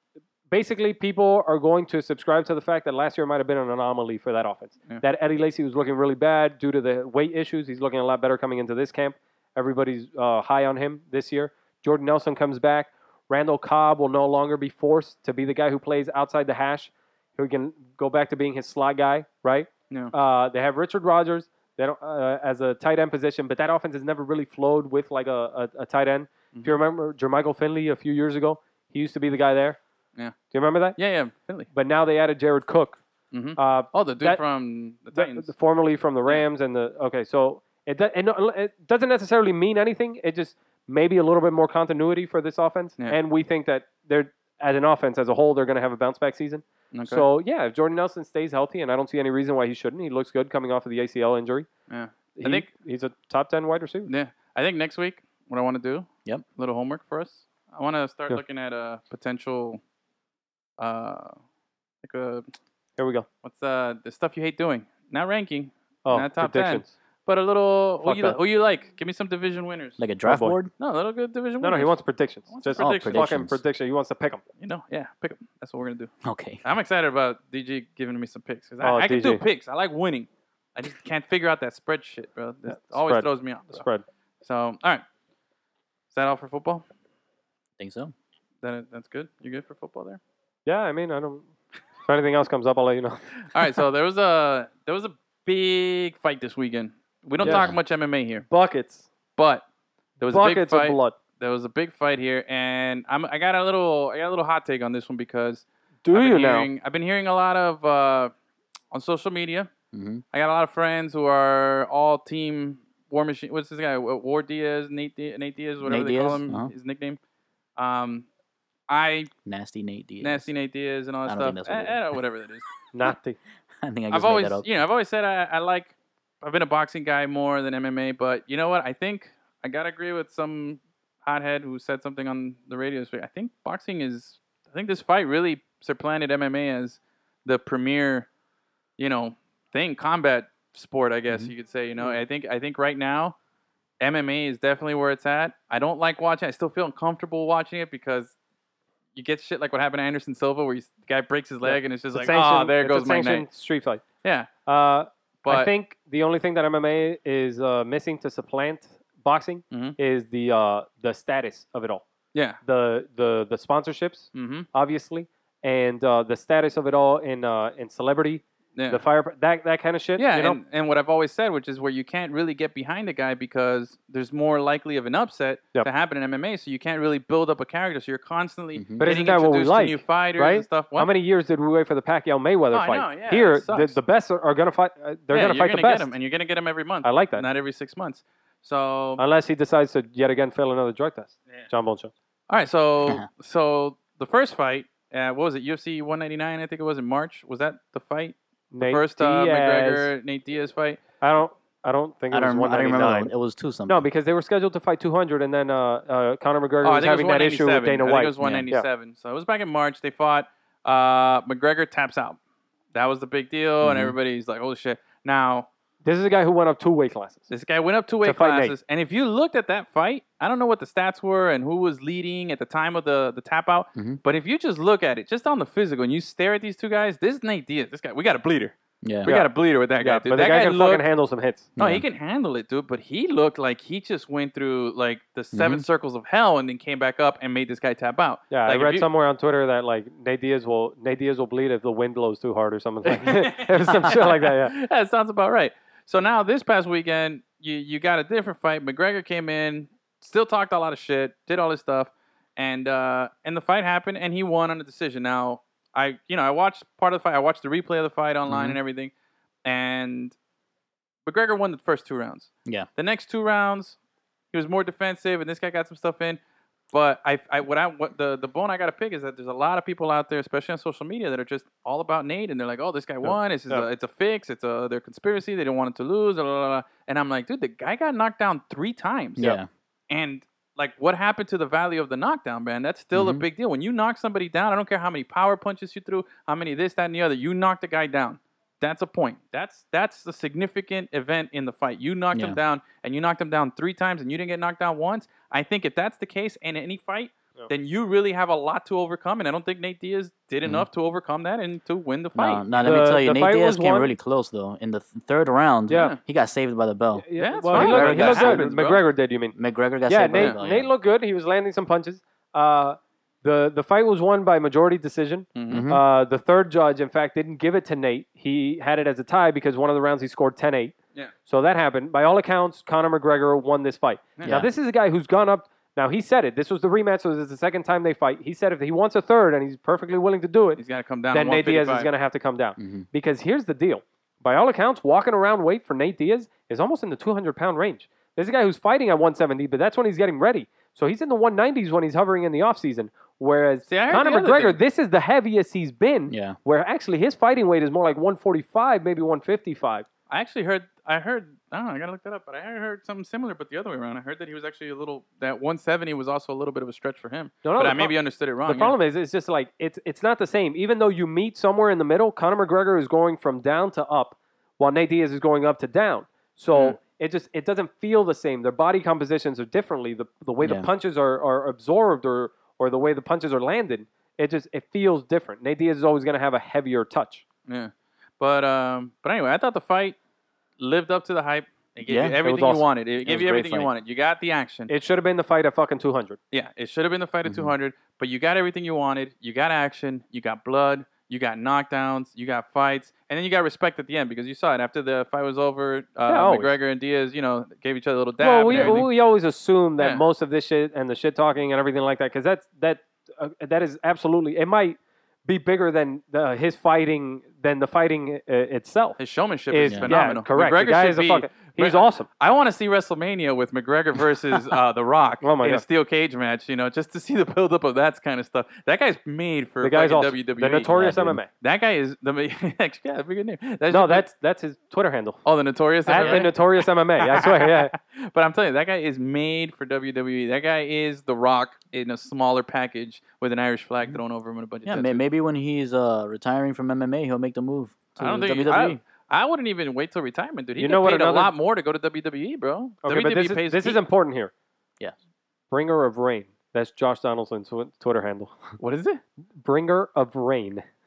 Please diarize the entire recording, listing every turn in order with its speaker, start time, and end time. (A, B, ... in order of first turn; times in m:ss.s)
0:00.5-0:29.8 A
0:30.5-0:31.0 A
0:31.0-0:31.7 B
0:31.7-0:33.0 A
0:33.3-0:35.5 B
0:33.6-0:34.4 A
0:35.0-0:51.7 A
0:46.9-0:47.3 B
0:51.9-0:52.6 B
0:52.3-0:54.1 A
0:54.0-0:59.8 B
1:00.8-1:01.4 B
1:02.0-1:02.5 B
1:03.0-1:03.2 A
1:03.4-1:10.0 B
1:06.0-1:06.9 A
1:08.0-1:08.4 A
1:10.0-1:10.7 C
1:10.2-1:10.6 A
1:10.8-1:13.3 B
1:11.6-1:14.4 A
1:12.7-1:13.6 C
1:14.6-1:16.1 B
1:16.2-1:16.6 C
1:16.6-1:23.8 B
1:18.8-1:19.4 A
1:22.8-1:24.0 A
1:24.4-1:25.0 B
1:26.1-1:26.8 B
1:27.8-1:28.1 C
1:28.6-1:30.2 B
1:30.6-1:31.4 A
1:32.0-1:33.2 A
1:33.4-1:38.5 B
1:37.4-1:37.8 C
1:38.5-1:39.1 A
1:39.4-1:39.6 B
1:40.2-1:48.3 B
1:40.3-1:41.1 A
1:46.0-1:46.7 A
1:48.9-1:49.7 B
1:49.9-1:50.2 C
1:50.3-1:57.2 B
1:55.8-1:56.7 C
1:57.8-1:58.3 B
1:58.9-1:59.3 B
1:59.4-2:00.5 C
2:00.2-2:02.7 B
2:01.2-2:02.0 C
2:02.9-2:03.4 A
2:03.8-2:04.6 C
2:04.1-2:18.3 B
2:19.0-2:23.4 B
2:24.0-2:28.3 B
2:29.1-2:33.5 B
2:31.6-2:34.0 A
2:34.2-2:34.5 B
2:34.6-2:42.0 A
2:35.4-2:35.7 B
2:39.7-2:40.0 B
2:42.6-2:50.6 A
2:44.3-2:44.7 B
2:48.8-2:49.0 B
2:50.2-3:01.1 B
2:58.8-2:59.0 C
2:59.0-3:06.1 A
3:02.7-3:04.0 B
3:05.3-3:09.2 B
3:07.0-3:07.4 A
3:09.2-3:12.1 A
3:12.5-3:21.0 B
3:18.7-3:20.1 A
3:21.2-3:23.3 A
3:22.3-3:24.0 C
3:23.9-3:28.8 A
3:26.8-3:32.4 B
3:28.4-3:28.7 C
3:32.9-3:35.7 B
3:33.8-3:34.1 C
3:36.0-3:37.5 A
3:37.5-3:51.0 B
3:38.2-3:38.7 A
3:49.0-3:49.3 C
3:49.2-3:51.7 A
3:51.8-3:52.0 C
3:51.8-3:59.1 B
3:55.5-3:55.8 C
3:58.5-4:04.8 A
4:03.0-4:19.1 B
4:18.5-4:18.8 C
4:19.6-4:20.3 B
4:21.2-4:24.0 B
4:24.5-4:26.4 B
4:26.9-4:39.6 B
4:39.4-4:39.7 C
4:40.1-5:02.7 B
4:43.1-4:43.4 C
4:52.3-4:52.6 C
5:02.3-5:08.6 C
5:02.8-5:04.1 A
5:05.9-5:06.2 A
5:05.9-5:06.2 B
5:07.2-5:09.6 A
5:07.4-5:09.0 B
5:09.5-5:10.9 C
5:10.1-5:50.1 A
5:15.5-5:15.8 B
5:15.7-5:16.0 C
5:24.4-5:24.7 C
5:30.8-5:32.1 B
5:32.8-5:33.0 C
5:43.9-5:44.8 B
5:46.3-5:46.6 C
5:50.3-5:59.0 B
5:57.6-6:17.4 A
6:06.7-6:07.0 B
6:10.6-6:10.9 C
6:17.7-6:20.2 B
6:20.8-6:24.9 B
6:22.0-6:22.4 C
6:22.4-6:23.9 A
6:24.9-6:26.4 A
6:26.5-6:39.1 B
6:27.4-6:27.7 C
6:36.3-6:36.7 A
6:38.4-6:49.2 A
6:40.0-6:40.2 B
6:49.2-7:00.9 B
6:49.7-6:52.3 A
6:49.9-6:50.2 C
6:55.4-6:55.8 A
6:59.8-7:01.5 A
7:00.9-7:01.4 C
7:01.6-7:04.2 B
7:03.9-7:05.4 A
7:05.4-7:06.7 B
7:06.0-7:07.9 A
7:06.2-7:06.5 C
7:07.2-7:15.2 B
7:14.8-7:19.0 C
7:18.2-7:24.0 B
7:20.8-7:21.5 A
7:23.0-7:24.5 A
7:25.7-7:28.8 A
7:28.8-7:29.2 B
7:29.6-7:30.8 A